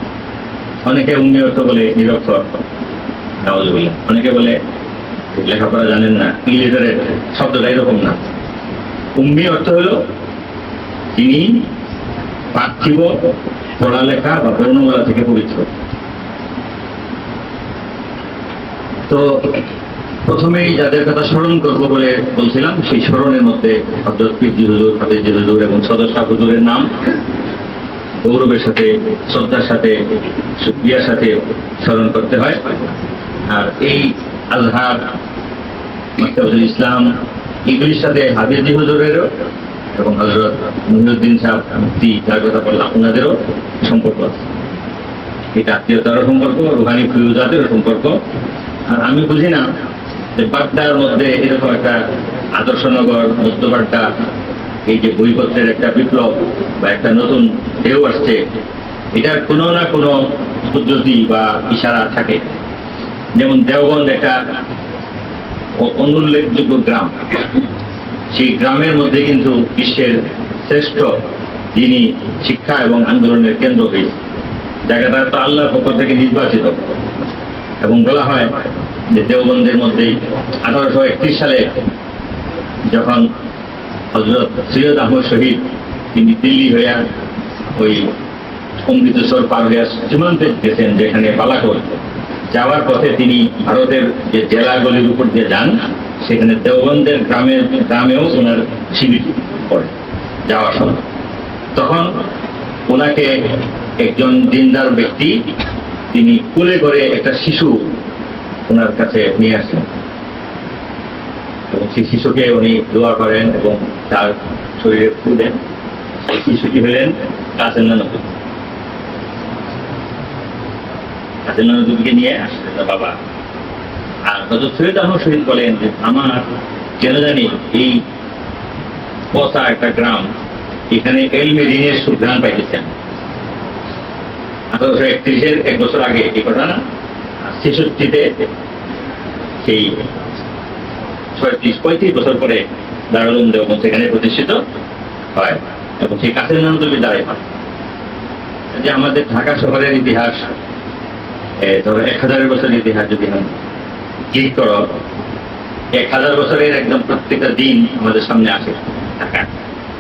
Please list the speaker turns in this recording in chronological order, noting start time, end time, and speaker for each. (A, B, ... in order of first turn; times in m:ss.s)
0:00.8-0:02.6 A
0:03.4-0:04.6 A
0:05.3-0:08.2 A
0:09.2-0:10.0 A
0:11.2-0:11.7 A
0:12.5-0:15.7 A
0:19.1-0:19.6 A
0:20.2-0:26.9 A
0:28.2-0:30.0 A
0:30.6-0:32.7 A
0:33.5-0:35.1 A
0:36.2-0:37.1 A
0:37.7-0:39.3 A
0:40.0-0:44.4 A
0:45.5-0:48.2 A
0:48.9-0:49.7 A
0:50.4-0:52.0 A
0:52.6-0:54.1 A
0:54.9-0:58.4 A
0:59.1-1:02.4 A
1:03.4-1:04.4 A
1:05.8-1:07.2 A
1:08.3-1:11.2 A
1:11.7-1:14.2 A
1:14.8-1:16.9 A
1:17.8-1:18.6 A
1:19.1-1:21.8 A
1:22.9-1:23.3 A
1:24.1-1:27.0 A
1:27.7-1:28.1 A
1:28.9-1:39.9 A
1:40.5-1:41.0 A
1:41.8-1:42.2 A
1:42.9-1:45.4 A
1:46.1-1:47.9 A
1:48.7-1:49.9 A
1:51.7-1:55.6 A
1:56.3-1:58.2 A
2:01.5-2:03.2 A
2:04.3-2:08.0 A
2:09.3-2:10.3 A
2:10.9-2:12.9 A
2:14.7-2:16.8 A
2:17.5-2:18.3 A
2:19.6-2:20.0 A
2:21.4-2:24.6 A
2:25.4-2:27.4 A
2:28.7-2:30.5 A
2:31.6-2:33.5 A
2:34.3-2:34.9 A
2:35.9-2:39.5 A